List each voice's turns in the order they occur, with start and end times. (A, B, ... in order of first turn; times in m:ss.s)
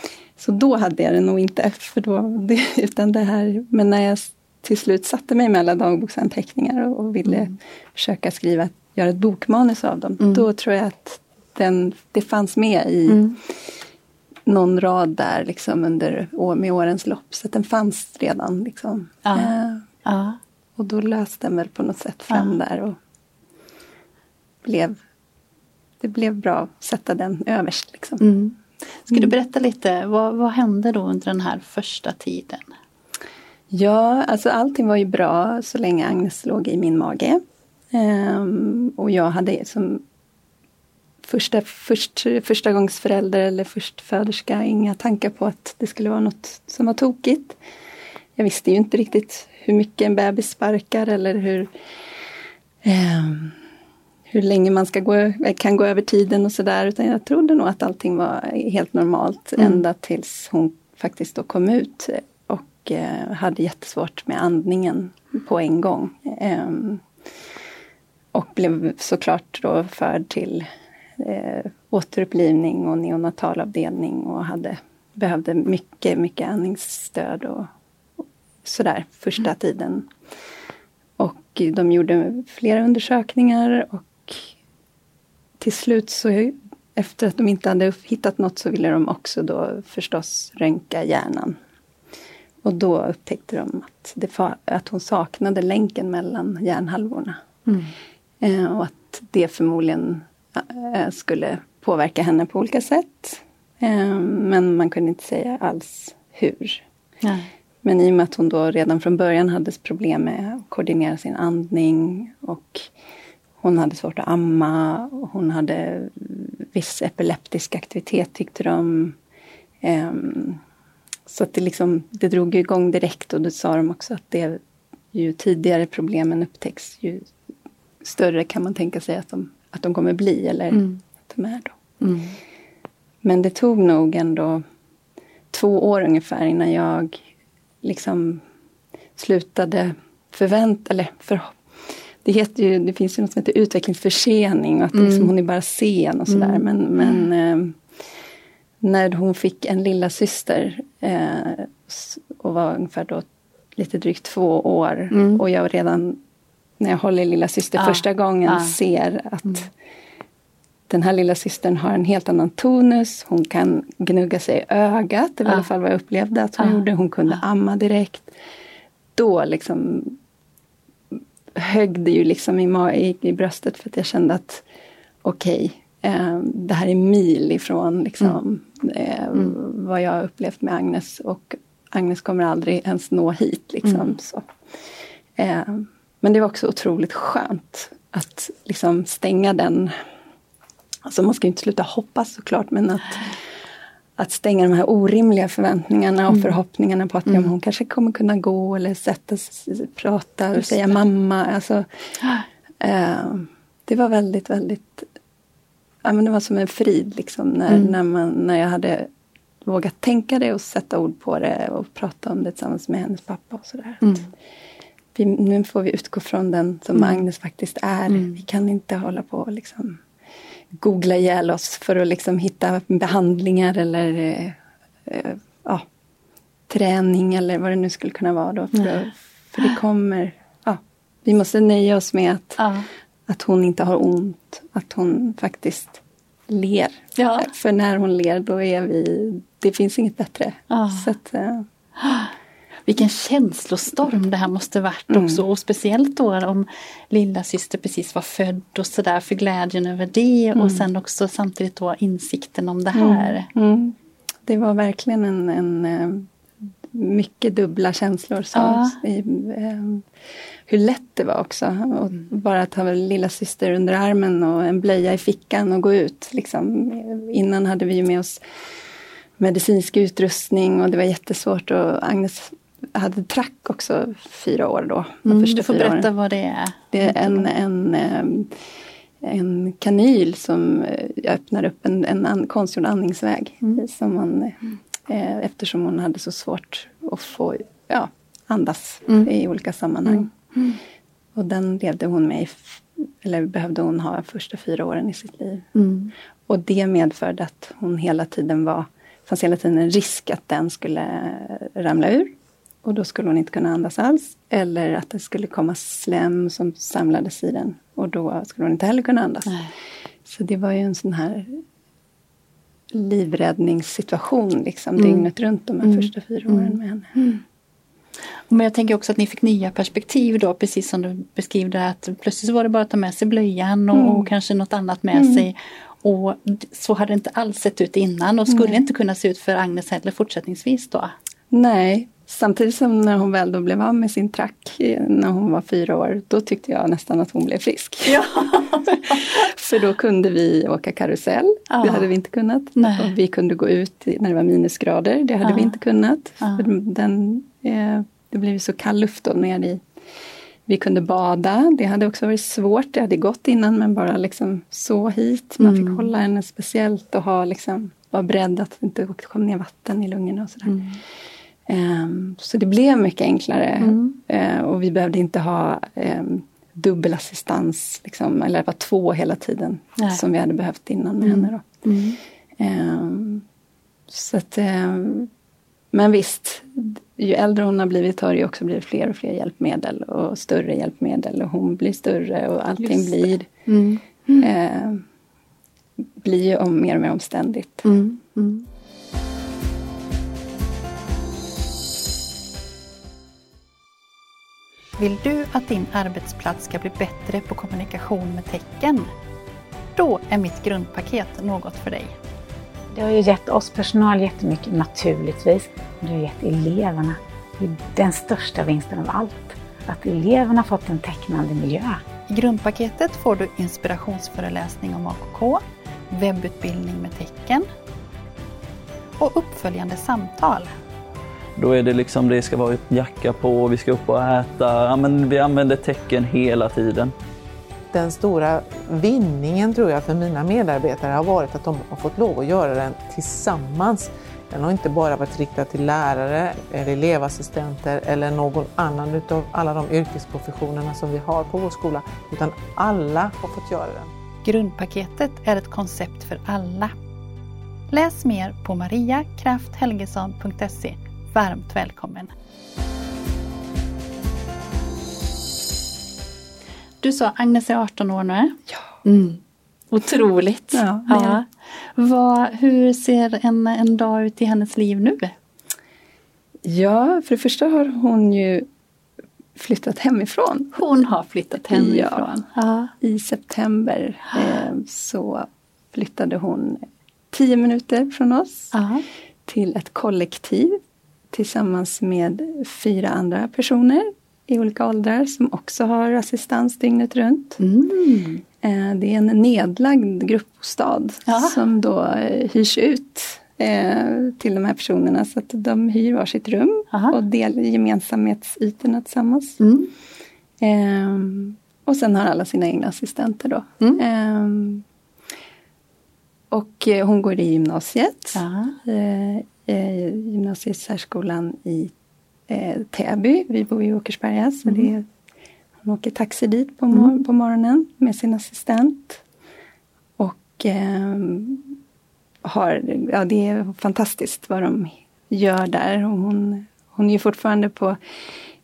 0:00.4-0:13.2 A
0:10.2-0:10.4 B
0:13.1-0:13.4 B
0:14.5-0:19.8 A
0:19.2-0:20.4 B
0:20.8-0:23.0 A
0:24.6-0:25.0 A
0:26.0-0:28.2 A
0:28.2-0:32.7 B
0:33.7-0:37.4 A
0:37.9-0:40.0 A
0:41.2-0:47.6 A
0:48.4-0:51.7 A
0:52.8-0:53.5 A
0:54.3-1:07.0 A
1:08.3-1:20.1 A
1:21.2-1:24.5 A
1:25.6-1:31.6 A
1:32.6-1:37.4 A
1:38.4-1:46.8 A
1:47.2-1:47.5 B
1:47.8-1:52.9 A
1:53.6-1:59.2 A
1:59.8-2:00.6 A
2:01.3-2:04.6 A
2:05.1-2:07.3 A
2:08.0-2:11.8 A
2:10.7-2:11.0 B
2:12.0-2:12.3 B
2:13.2-2:14.6 A
2:15.5-2:17.2 A
2:17.8-2:18.4 A
2:19.2-2:21.6 A
2:22.2-2:27.8 A
2:24.9-2:25.3 B
2:26.3-2:26.6 B
2:28.8-2:36.2 A
2:35.1-2:35.4 B
2:36.8-2:39.7 A
2:37.8-2:38.7 B
2:40.9-2:48.3 A
2:49.1-2:50.2 A
2:51.5-2:54.6 A
2:55.2-3:04.5 A
3:03.8-3:04.1 B
3:05.4-3:10.0 A
3:11.0-3:13.4 A
3:14.2-3:21.8 A
3:20.6-3:20.9 B
3:22.8-3:25.1 A
3:26.0-3:29.1 A
3:27.7-3:27.9 B
3:29.6-3:34.2 A
3:34.0-3:34.3 B
3:35.1-3:40.0 A
3:37.0-3:37.2 B
3:38.1-3:38.4 B
3:40.7-3:45.8 A
3:46.7-3:52.6 A
3:48.7-3:49.0 B
3:52.6-3:52.9 B
3:53.3-4:01.6 A
3:57.2-3:57.5 B
4:00.7-4:01.1 B
4:02.0-4:02.3 B
4:02.9-4:13.5 B
4:05.1-4:05.4 A
4:10.6-4:10.8 A
4:12.9-4:13.9 A
4:14.4-4:16.3 A
4:16.9-4:20.1 A
4:18.5-4:19.0 B
4:20.7-4:28.4 A
4:29.4-4:36.1 A
4:35.2-4:37.5 B
4:36.9-4:38.5 A
4:39.2-4:50.5 A
4:51.3-4:55.7 A
4:55.7-4:56.1 B
4:56.5-5:09.6 A
5:09.4-5:09.7 B
5:10.2-5:11.6 A
5:12.9-5:17.2 A
5:15.0-5:15.2 B
5:15.8-5:17.4 B
5:18.5-5:31.1 B
5:23.9-5:24.3 A
5:25.1-5:25.4 A
5:28.5-5:28.8 A
5:31.5-5:49.8 A
5:38.0-5:39.4 B
5:41.7-5:42.1 B
5:42.8-5:43.1 B
5:45.4-5:45.7 B
5:46.4-5:46.7 B
5:50.6-6:00.8 A
5:55.6-5:56.1 B
6:00.6-6:01.0 B
6:01.7-6:11.6 A
6:03.8-6:04.1 B
6:11.2-6:12.2 B
6:12.6-6:13.4 A
6:14.1-6:15.3 A
6:15.9-6:23.5 A
6:22.8-6:24.5 B
6:24.4-6:25.0 A
6:26.2-6:27.9 A
6:27.8-6:28.6 B
6:35.0-6:39.1 B
6:40.0-6:42.1 B
6:42.9-6:52.0 C
6:52.3-6:57.7 B
6:59.2-7:00.7 B
7:01.6-7:07.1 D
7:07.9-7:24.1 E
7:24.4-7:26.9 B
7:27.9-7:32.3 B
7:37.0-7:39.4 B
7:39.9-7:45.3 B
7:40.7-7:41.4 A
7:46.6-7:48.7 A
7:49.6-7:50.8 A
7:50.7-7:52.9 B
7:51.7-7:52.5 A
7:53.0-7:58.7 A
7:58.7-7:59.0 B
7:59.4-8:00.8 A
8:01.3-8:07.6 A
8:07.6-8:08.4 B
8:08.6-8:19.6 A
8:11.3-8:11.6 B
8:16.9-8:17.2 B
8:19.6-8:19.9 B
8:20.6-8:24.8 A
8:26.5-8:31.9 A
8:28.3-8:28.8 B
8:32.5-8:35.0 A
8:35.8-8:39.2 A
8:40.2-8:41.8 A
8:42.4-8:48.0 A